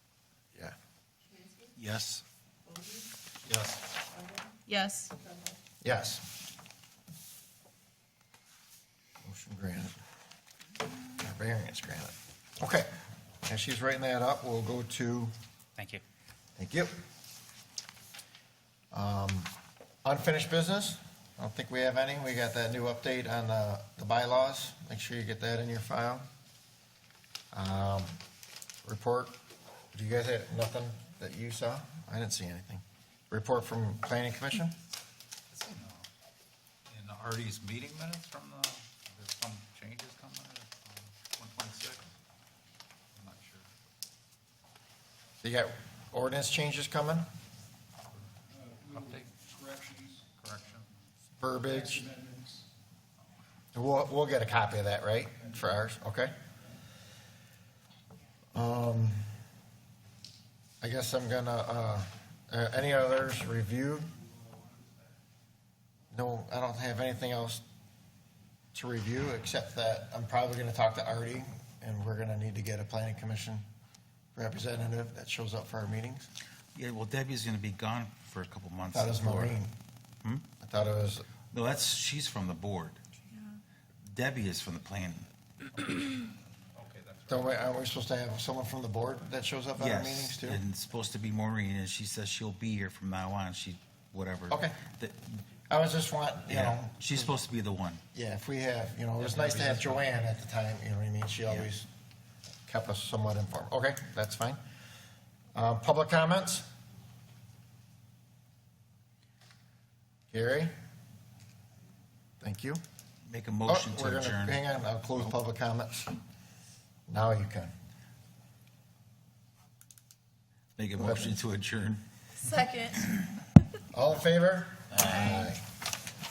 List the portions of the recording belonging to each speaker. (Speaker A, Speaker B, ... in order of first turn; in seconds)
Speaker A: 1.3-1.6, 4.2-5.5, 122.4-123.0
Speaker B: 1.8-2.2, 3.5-3.8, 15.8-16.0, 76.7-79.6, 81.5-83.0, 84.0-85.3, 89.8-95.4, 96.5-98.0, 99.2-100.0, 113.2-114.6, 120.8-122.0, 124.9-125.5
Speaker C: 5.8-6.2, 9.2-10.0, 11.2-12.9, 13.4-15.3, 16.6-16.9, 18.9-19.5, 20.0-26.2, 27.5-28.1, 28.8-29.4, 29.9-34.8, 45.4-47.2, 51.4-52.1, 53.7-56.3, 58.5-59.2, 60.8-64.1, 66.1-67.6, 68.7-73.6, 74.3-76.3, 78.9-79.7, 80.6-81.3, 87.3-90.6, 94.5-94.8, 95.7-97.3, 98.1-101.9, 102.7-104.6, 105.5-106.7, 110.3-110.7, 112.4-112.8, 113.7-116.1, 117.1-117.7, 121.0-121.4, 123.9-125.6
Speaker D: 35.5-36.0, 36.9-42.0, 43.1-43.7, 48.8-49.5, 50.3-50.9, 86.8-87.7
Speaker E: 48.6-50.3, 51.6-52.7